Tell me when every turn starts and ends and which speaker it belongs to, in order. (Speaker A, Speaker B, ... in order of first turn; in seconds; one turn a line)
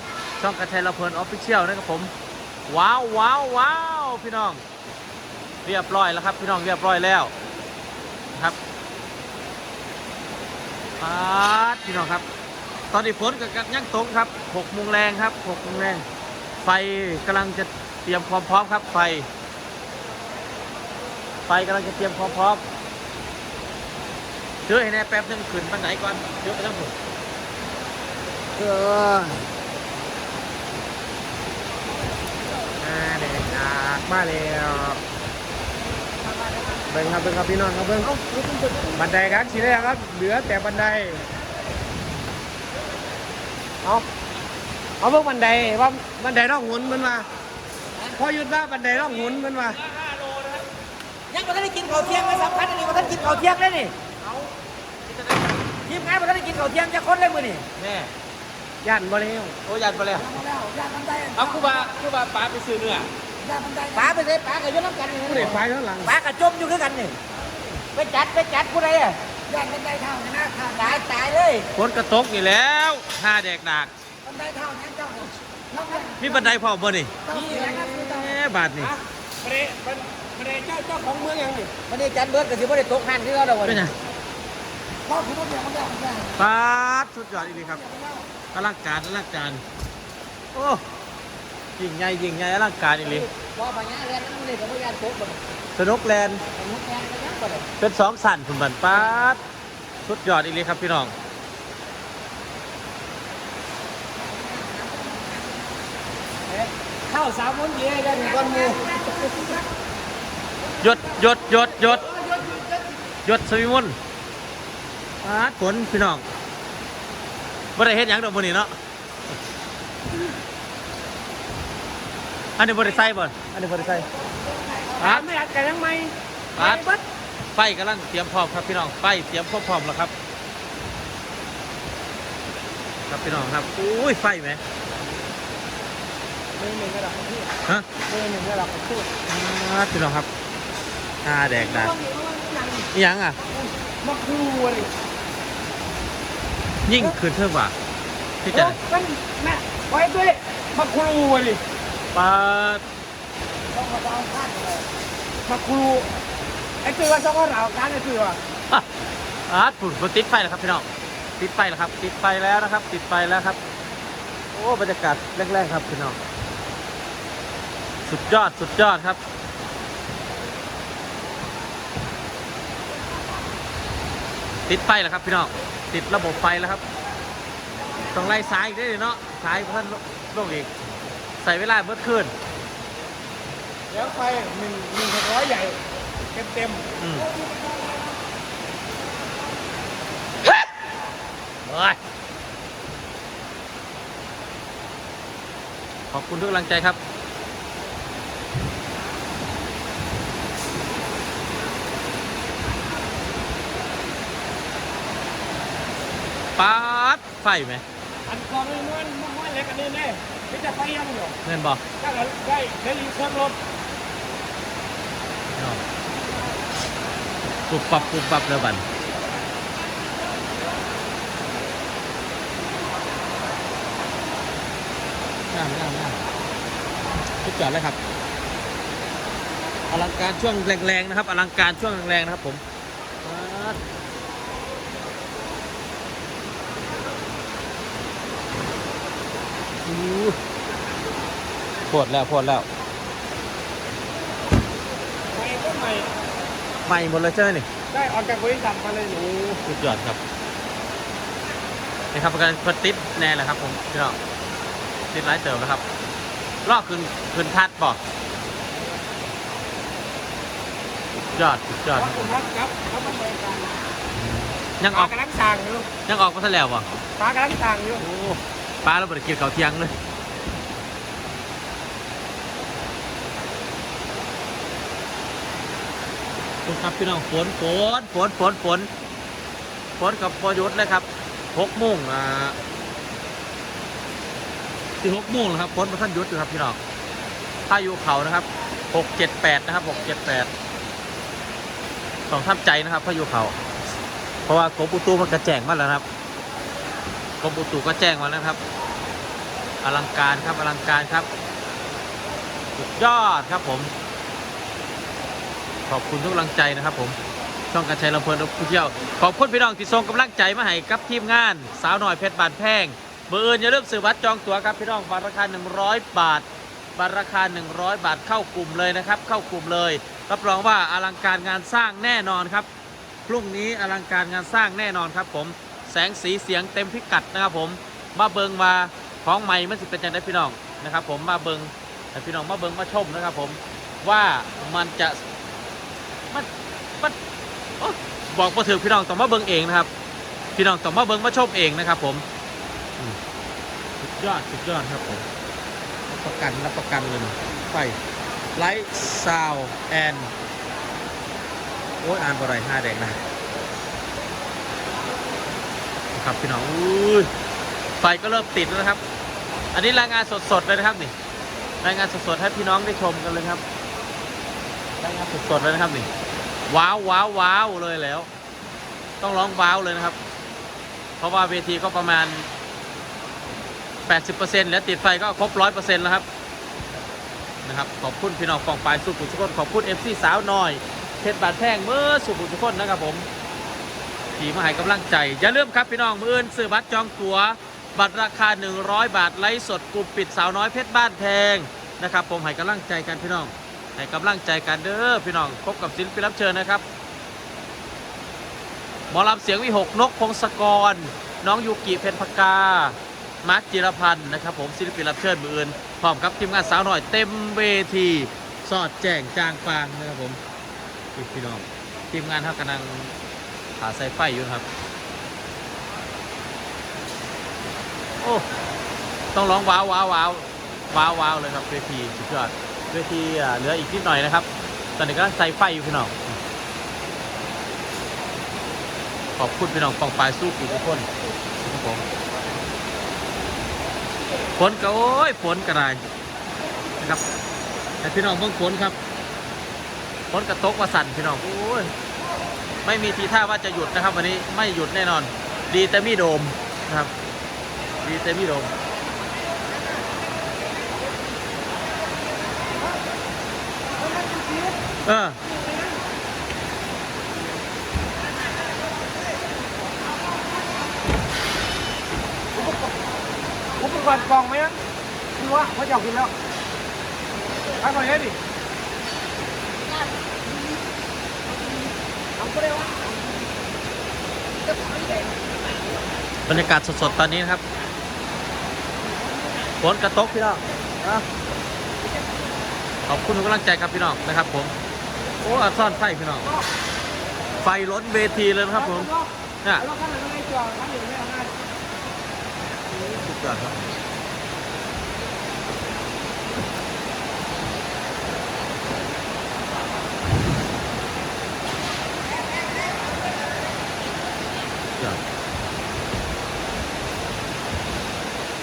Speaker A: 0.4-2.1
Speaker A: 2.7-4.6
Speaker A: 5.7-7.3
Speaker A: 11.0-12.2
Speaker A: 12.9-16.0
Speaker A: 16.6-19.3
Speaker A: 21.5-22.6
Speaker A: 24.7-26.9
Speaker B: 28.6-29.4
Speaker B: 32.8-35.0
Speaker B: 36.9-38.2
Speaker B: 38.8-41.2
Speaker B: 45.0-47.3
Speaker B: 48.1-49.8
Speaker C: 51.3-54.0
Speaker C: 55.8-57.7
Speaker A: 57.8-58.1
Speaker B: 58.8-59.6
Speaker A: 59.7-60.4
Speaker C: 60.3-61.8
Speaker A: 61.3-63.1
Speaker C: 63.5-67.2
Speaker B: 65.3-66.2
Speaker C: 67.9-71.7
Speaker A: 71.7-73.9
Speaker C: 74.3-76.3
Speaker A: 76.2-79.0
Speaker C: 77.3-78.3
Speaker B: 77.3-78.0
Speaker B: 78.8-81.8
Speaker C: 81.9-83.9
Speaker A: 83.6-84.0
Speaker C: 85.1-86.3
Speaker A: 86.3-87.8
Speaker A: 88.5-89.6
Speaker A: 90.5-90.8
Speaker A: 91.8-93.3
Speaker C: 93.2-95.4
Speaker A: 95.8-96.4
Speaker C: 96.5-97.7
Speaker A: 97.8-99.4
Speaker A: 100.0-101.1
Speaker B: 106.5-109.6
Speaker A: 110.8-112.2
Speaker A: 113.3-114.0
Speaker A: 115.2-116.2
Speaker A: 117.8-118.7
Speaker A: 122.6-124.1
Speaker B: 124.8-127.0
Speaker A: 125.0-125.3
Speaker A: 126.6-126.8
Speaker A: 127.5-130.1
Speaker A: 133.1-134.6
Speaker B: 136.6-137.5
Speaker B: 138.1-139.1
Speaker A: 139.3-140.3
Speaker A: 141.2-141.9
Speaker B: 141.6-142.9
Speaker A: 142.9-143.4
Speaker B: 143.8-144.9
Speaker A: 146.9-147.8
Speaker A: 148.4-148.8
Speaker B: 148.5-151.6
Speaker A: 152.1-152.8
Speaker B: 153.7-154.8
Speaker B: 155.4-156.1
Speaker B: 156.8-158.4
Speaker A: 159.5-160.9
Speaker A: 161.4-163.6
Speaker A: 164.5-166.2
Speaker A: 168.1-169.2
Speaker A: 174.7-176.8
Speaker A: 178.1-180.7
Speaker A: 181.4-182.3
Speaker B: 183.9-185.8
Speaker B: 186.3-186.9
Speaker A: 187.0-187.3
Speaker A: 191.7-192.0
Speaker A: 196.1-197.0
Speaker A: 206.6-207.8
Speaker B: 208.3-211.4
Speaker A: 211.4-211.8
Speaker B: 212.0-213.6
Speaker A: 215.6-215.8
Speaker A: 217.7-218.8
Speaker A: 225.5-226.2
Speaker A: 227.4-228.0
Speaker A: 229.9-232.6
Speaker A: 233.2-233.8
Speaker A: 239.8-240.4
Speaker A: 241.9-242.7
Speaker B: 245.3-246.1
Speaker A: 246.9-247.7
Speaker B: 247.9-249.6
Speaker A: 249.6-250.2
Speaker A: 252.1-254.2
Speaker A: 255.1-255.8
Speaker A: 256.6-258.0
Speaker A: 261.3-262.3
Speaker B: 261.9-263.8
Speaker A: 264.2-265.1
Speaker B: 264.9-265.9
Speaker A: 266.1-266.9
Speaker B: 267.2-268.0
Speaker A: 268.0-269.9
Speaker A: 276.7-278.9
Speaker A: 280.0-282.6
Speaker A: 285.0-286.8
Speaker A: 287.7-290.5
Speaker A: 292.3-293.5
Speaker A: 294.5-296.1
Speaker A: 297.4-298.6
Speaker A: 299.8-301.3
Speaker A: 302.8-303.9
Speaker A: 305.9-307.2
Speaker A: 307.7-322.7
Speaker A: 323.3-335.2
Speaker A: 337.8-339.9
Speaker A: 340.6-342.2
Speaker A: 344.0-345.2
Speaker A: 346.1-348.0
Speaker A: 348.6-350.3
Speaker A: 352.0-353.2
Speaker A: 356.1-357.3
Speaker A: 358.0-359.0
Speaker A: 359.7-361.1
Speaker A: 361.8-363.6
Speaker A: 365.0-366.1
Speaker A: 366.7-368.3
Speaker A: 369.2-370.2
Speaker A: 371.2-372.5
Speaker A: 374.1-376.2
Speaker A: 377.6-383.3
Speaker A: 384.4-396.8
Speaker A: 399.1-410.4
Speaker A: 411.2-413.1
Speaker A: 413.8-414.6
Speaker A: 419.3-426.4
Speaker A: 429.4-431.1
Speaker A: 431.6-432.0
Speaker A: 434.6-436.0
Speaker A: 437.0-437.2
Speaker A: 438.0-439.0
Speaker A: 440.3-441.9
Speaker A: 442.9-447.1
Speaker A: 448.0-448.7
Speaker B: 454.0-454.8
Speaker A: 455.1-455.4
Speaker B: 462.6-462.9
Speaker B: 463.8-464.8
Speaker B: 465.4-466.3
Speaker B: 467.8-468.4
Speaker B: 472.4-473.0
Speaker A: 476.5-477.6
Speaker A: 479.8-481.2
Speaker A: 483.1-484.7
Speaker A: 485.4-486.5
Speaker A: 487.6-489.1
Speaker B: 488.7-491.6
Speaker A: 492.9-493.9